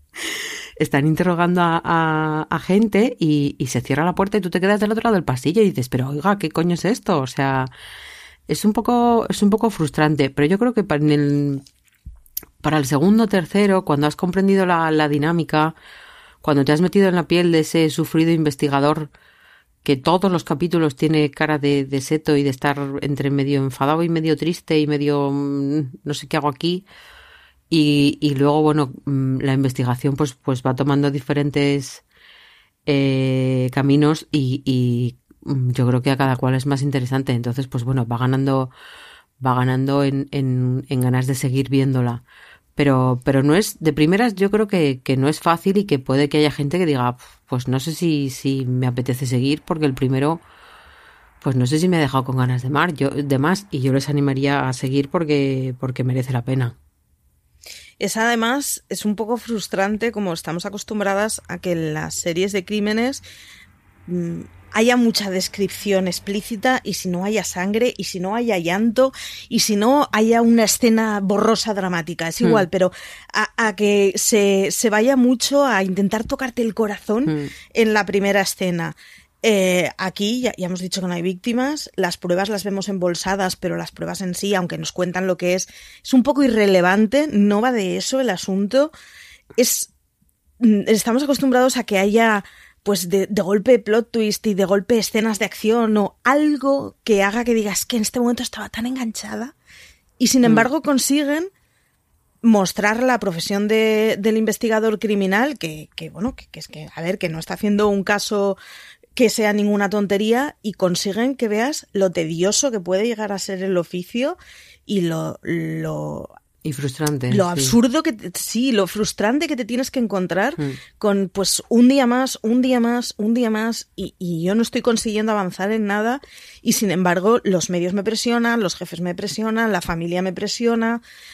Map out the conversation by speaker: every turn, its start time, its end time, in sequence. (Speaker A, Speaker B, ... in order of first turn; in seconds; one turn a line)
Speaker A: 0.2-7.7
Speaker A: 8.5-11.6
Speaker A: 12.6-15.7
Speaker A: 16.4-19.1
Speaker A: 19.8-26.9
Speaker A: 27.7-32.0
Speaker A: 32.9-38.7
Speaker A: 39.4-42.2
Speaker A: 42.8-50.4
Speaker A: 51.4-56.8
Speaker B: 58.0-63.2
Speaker B: 64.1-88.9
Speaker A: 77.2-77.5
Speaker B: 89.6-89.9
Speaker B: 90.6-99.5
Speaker B: 100.2-101.5
Speaker B: 102.4-108.6
Speaker B: 109.1-116.3
Speaker A: 116.6-117.8
Speaker B: 117.3-131.0